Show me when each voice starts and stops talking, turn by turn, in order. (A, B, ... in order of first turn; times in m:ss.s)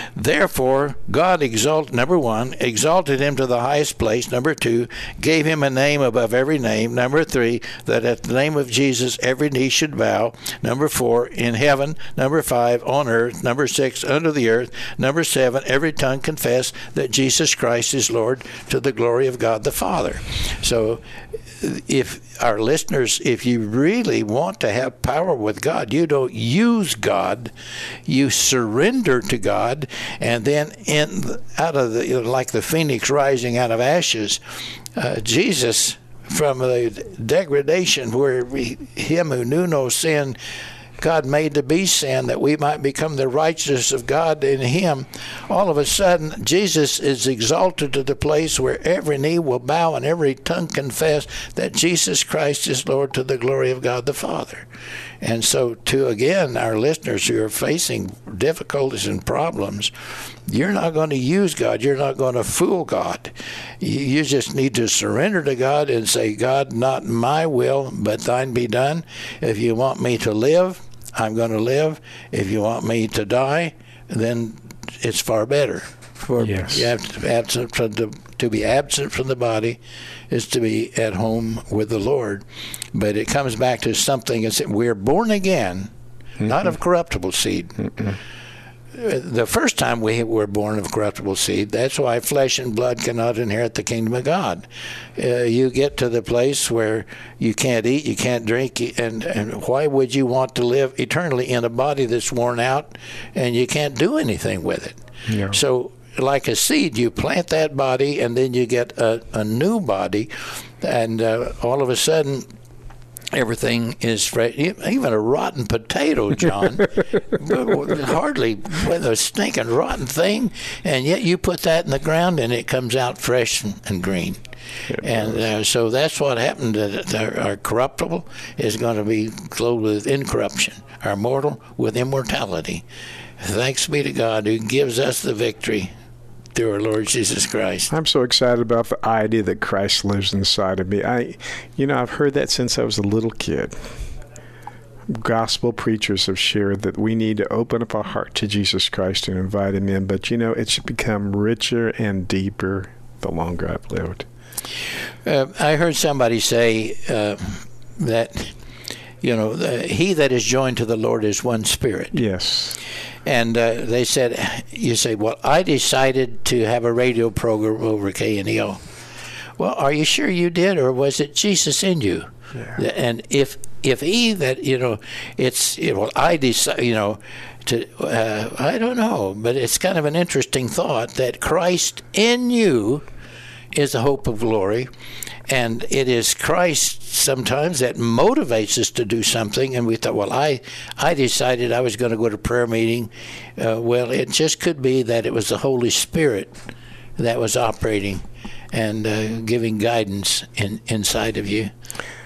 0:00.2-0:21.0 A
0:21.6-0:27.5 A
0:28.1-0:34.4 A
0:35.0-0:40.4 A
0:41.0-0:54.7 A
0:55.2-0:59.9 A
1:00.5-1:25.9 A
1:16.4-1:16.9 B
1:26.4-1:27.9 A
1:28.9-1:45.0 A
1:45.3-1:45.6 B
1:45.5-1:52.4 A
1:53.3-2:04.4 A
2:04.9-2:05.4 B
2:05.0-2:12.8 A
2:13.4-2:15.9 A
2:16.5-2:17.9 A
2:17.9-2:23.8 B
2:25.1-2:34.3 B
2:35.2-2:38.5 A
2:39.2-2:42.2 A
2:42.1-2:42.8 B
2:43.2-2:48.8 A
2:49.6-3:03.0 A
3:03.7-3:04.9 A
3:05.5-3:16.5 A
3:17.2-3:21.7 A